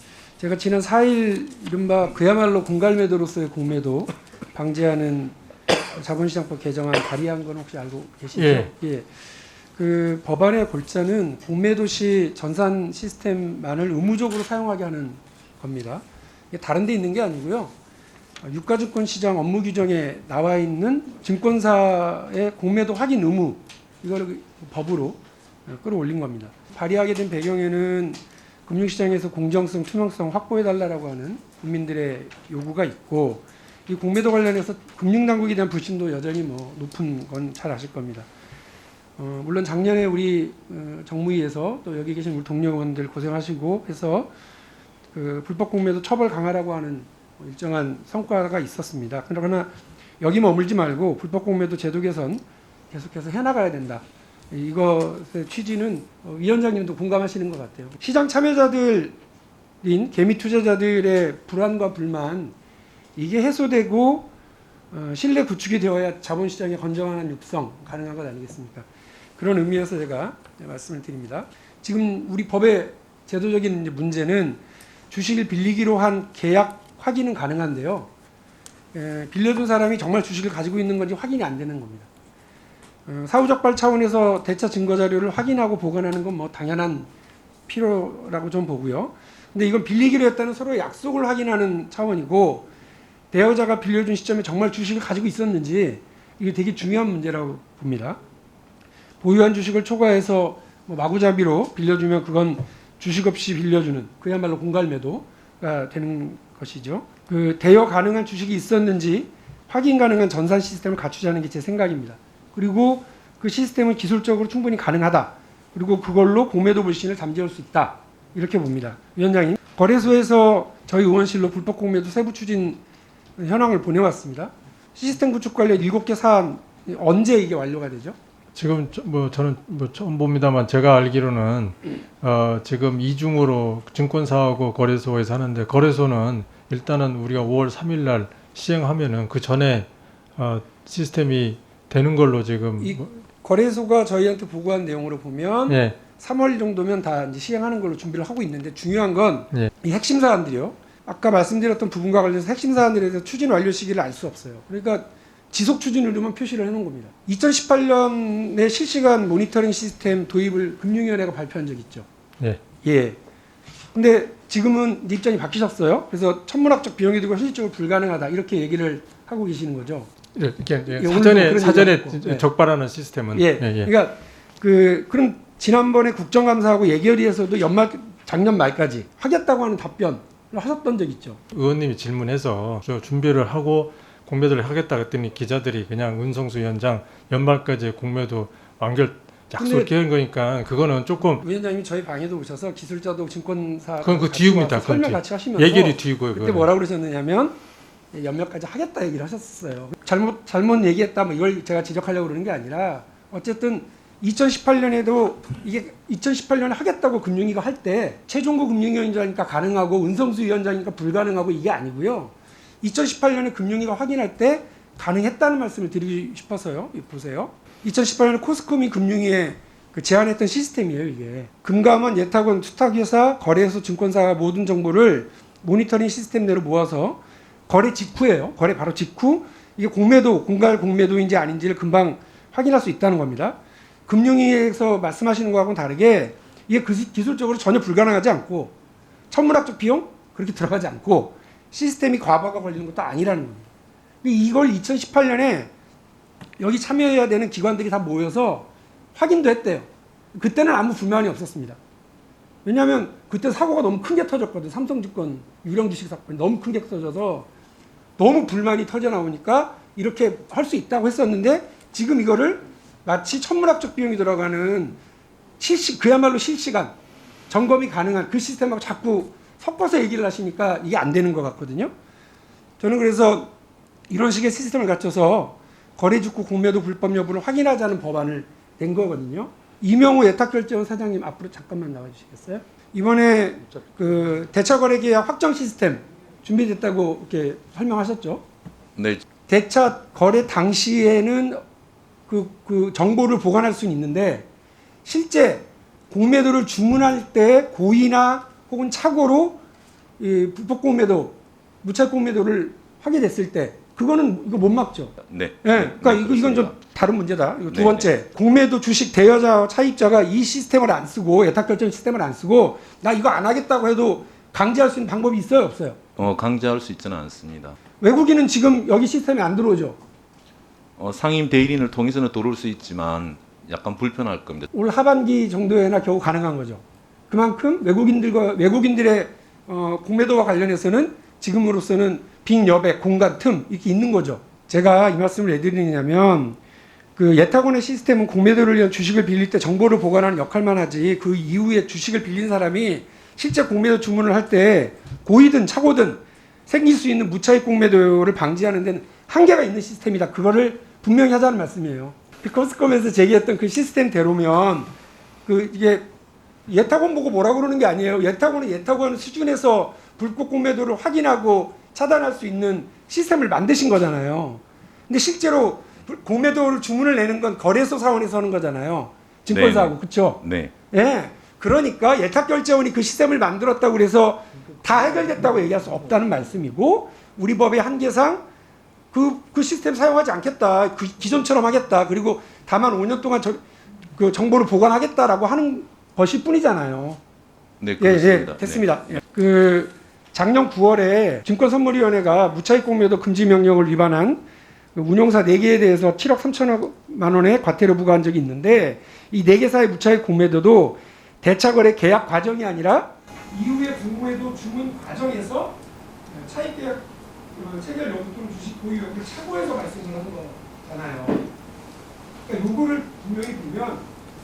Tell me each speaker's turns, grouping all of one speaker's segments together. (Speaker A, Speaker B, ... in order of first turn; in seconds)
Speaker A: 0.4-5.3, 5.9-9.1, 9.8-17.7, 18.4-38.3, 39.2-44.3, 45.1-59.2, 59.8-62.5, 63.2-64.3, 64.9-78.1, 78.9-82.1, 83.1-87.1, 87.7-92.7, 93.3-98.2, 99.2-122.8, 123.4-128.2, 142.8-162.1, 162.8-163.2, 163.9-170.1, 170.8-172.5, 173.3-181.4, 189.6-189.9, 191.4-197.6, 198.1-238.7, 239.3-243.7, 244.2-245.7, 246.6-251.8, 252.7-257.5, 258.2-265.0, 265.6-266.9, 267.5-271.9, 272.8-273.5, 274.1-288.4, 289.5-291.6, 292.3-294.5, 295.0-299.6, 300.2-316.0, 318.0-320.0, 324.7-336.6, 337.1-354.9, 355.4-356.1, 356.7-378.4, 379.1-383.6, 384.1-387.2, 388.0-394.4, 394.9-405.8, 406.3-411.4, 412.4-414.1
Speaker B: 8.4-8.7, 128.5-143.0, 145.7-146.0, 170.3-173.9, 181.5-191.4, 194.0-196.7
Speaker C: 288.9-289.2, 305.2-306.8, 307.7-308.1, 316.2-317.8, 321.0-324.7, 369.5-370.7, 387.8-388.8